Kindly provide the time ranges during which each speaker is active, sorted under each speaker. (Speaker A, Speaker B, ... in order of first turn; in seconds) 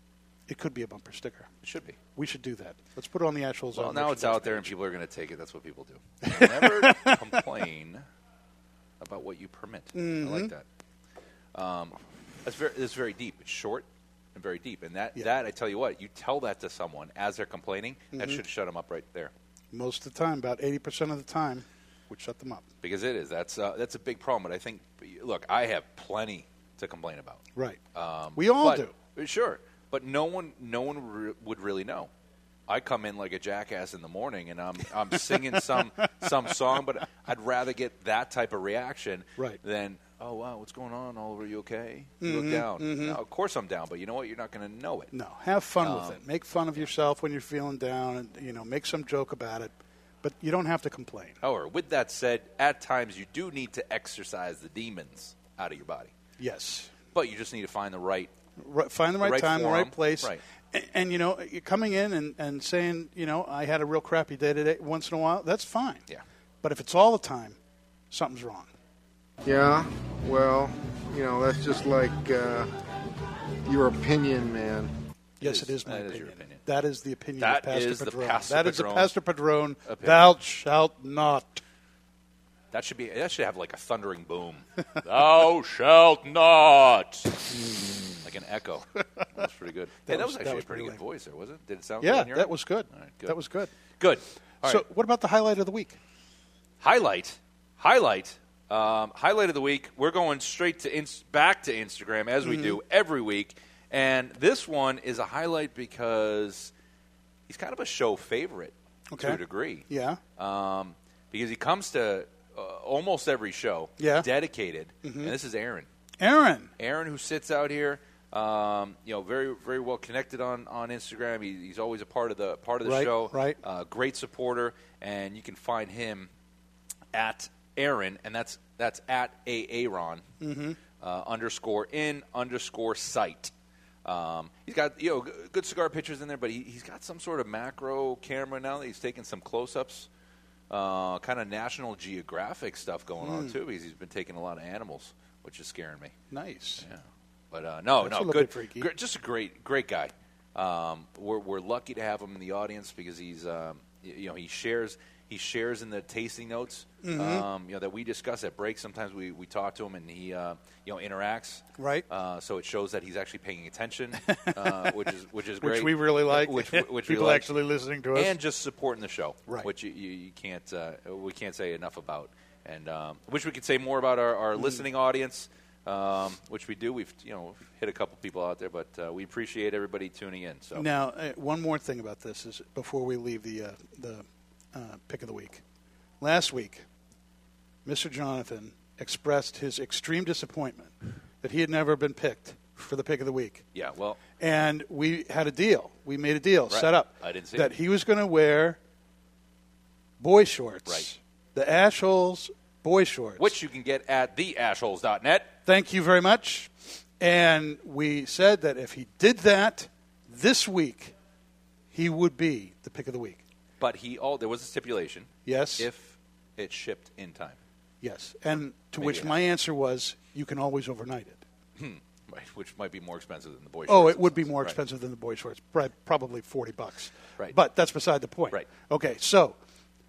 Speaker A: 0.5-1.5, 2.1-4.7, 6.2-7.3, 9.9-10.5, 18.1-18.4, 19.7-22.7, 27.5-27.8, 28.3-28.9, 35.3-35.8, 42.2-43.2, 45.1-51.4, 56.4-56.9, 58.6-66.0, 66.6-67.6, 68.1-68.7, 75.4-81.6, 90.1-91.0, 92.0-93.7, 94.6-96.0, 102.4-102.8, 109.1-110.2, 114.0-114.3, 115.0-115.3, 116.2-116.7, 122.8-123.6, 130.4-130.8, 143.2-143.6, 146.3-146.8, 148.0-148.9, 157.0-157.4, 161.8-162.1, 164.2-165.1, 165.6-168.3, 174.6-174.8, 180.7-185.6, 186.2-186.8, 187.8-193.7, 194.4-198.8, 200.2-203.6, 205.7-211.1, 211.9-213.4, 215.4-215.9, 218.0-221.4, 223.9-229.6
Speaker B: 1.6-2.0, 3.7-8.0, 9.0-10.6, 11.5-19.3, 22.8-32.1, 32.7-45.1, 45.8-46.2, 51.4-56.1, 57.1-58.3, 59.2-60.4, 75.4-76.6, 77.4-79.1, 79.8-80.3, 82.7-87.4, 88.2-93.3, 93.9-94.8, 96.8-106.7, 107.5-115.9, 116.8-126.3, 127.1-130.2, 131.0-133.5, 134.0-140.1, 140.7-146.2, 146.8-167.5, 168.1-180.9, 193.7-194.2, 196.7-197.7, 203.4-205.6, 213.8-217.6, 219.0-219.4, 221.8-224.8
Speaker C: 69.4-72.8, 73.6-74.9